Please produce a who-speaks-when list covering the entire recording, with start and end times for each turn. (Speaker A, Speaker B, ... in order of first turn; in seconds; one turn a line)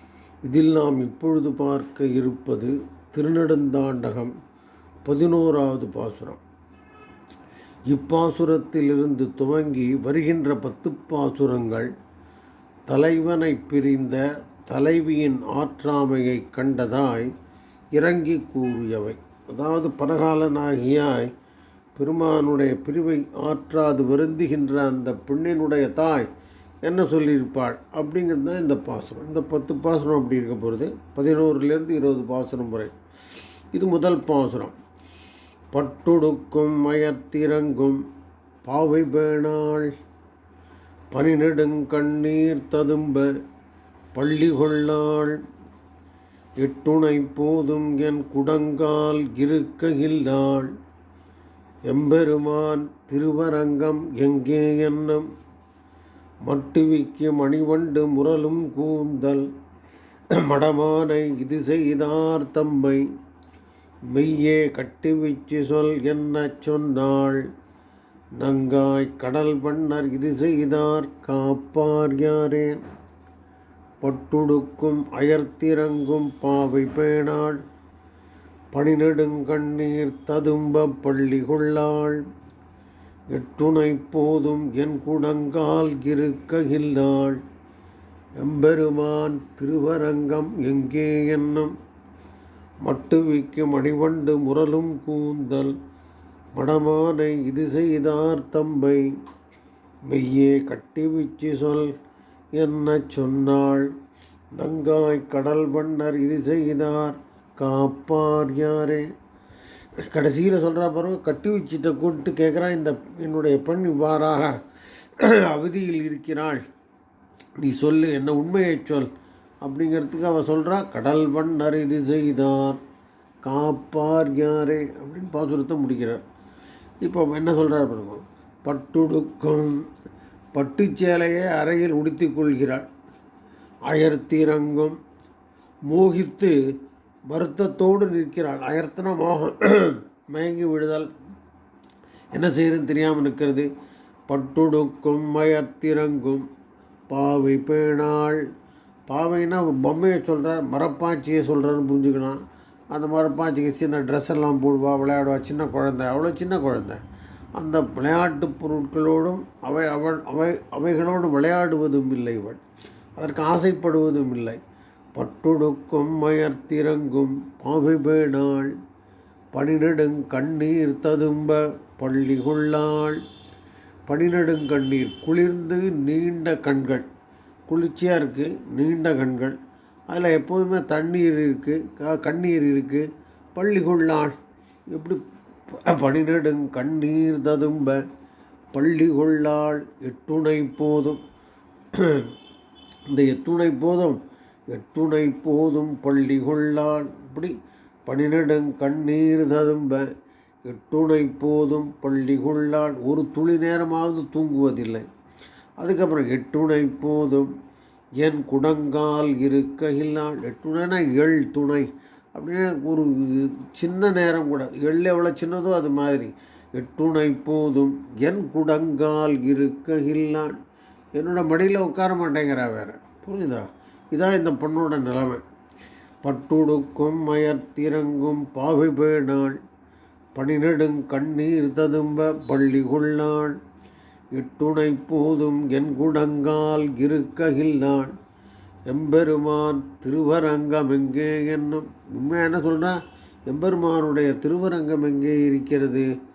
Speaker A: 0.5-4.3
Speaker A: 5.1-6.4
Speaker A: 7.9-11.9
Speaker A: 12.9-17.3
Speaker A: 17.9-21.3
Speaker A: 21.9-26.3
Speaker A: 26.8-32.9
Speaker A: 33.7-34.8
Speaker A: 35.7-38.0
Speaker A: 38.6-39.9
Speaker A: 41.1-43.4
Speaker A: 44.1-45.4
Speaker A: 46.6-50.7
Speaker A: 51.9-55.3
Speaker A: 56.5-59.5
Speaker A: 60.4-63.1
Speaker A: 64.1-67.4
Speaker A: 68.4-72.8
Speaker A: 74.0-77.6
Speaker A: 78.7-82.2
Speaker A: 83.3-87.4
Speaker A: 88.4-91.7
Speaker A: 92.8-95.8
Speaker A: 96.5-99.2
Speaker A: 100.1-101.9
Speaker A: 102.6-103.9
Speaker A: 104.6-109.1
Speaker A: 110.0-114.6
Speaker A: 115.2-116.6
Speaker A: 117.6-119.1
Speaker A: 119.6-122.8
Speaker A: 123.5-126.2
Speaker A: 127.0-129.9
Speaker A: 130.6-132.8
Speaker A: 133.9-135.0
Speaker A: 135.9-136.6
Speaker A: 137.3-141.1
Speaker A: 142.3-143.7
Speaker A: 144.3-146.5
Speaker A: 147.1-148.4
Speaker A: 149.1-152.4
Speaker A: 152.9-157.0
Speaker A: 157.6-162.6
Speaker A: 163.2-164.6
Speaker A: 165.2-168.8
Speaker A: 169.5-173.2
Speaker A: 174.1-177.1
Speaker A: 177.7-179.6
Speaker A: 180.1-184.4
Speaker A: 184.9-188.0
Speaker A: 188.7-191.2
Speaker A: 191.9-192.3
Speaker A: 193.1-194.2
Speaker A: 194.7-197.5
Speaker A: 198.1-200.1
Speaker A: 200.7-205.1
Speaker A: 205.8-207.5
Speaker A: 208.2-220.6
Speaker A: 221.2-225.4
Speaker A: 226.2-229.6
Speaker A: 230.3-233.6
Speaker A: 234.3-238.2
Speaker A: 238.9-246.1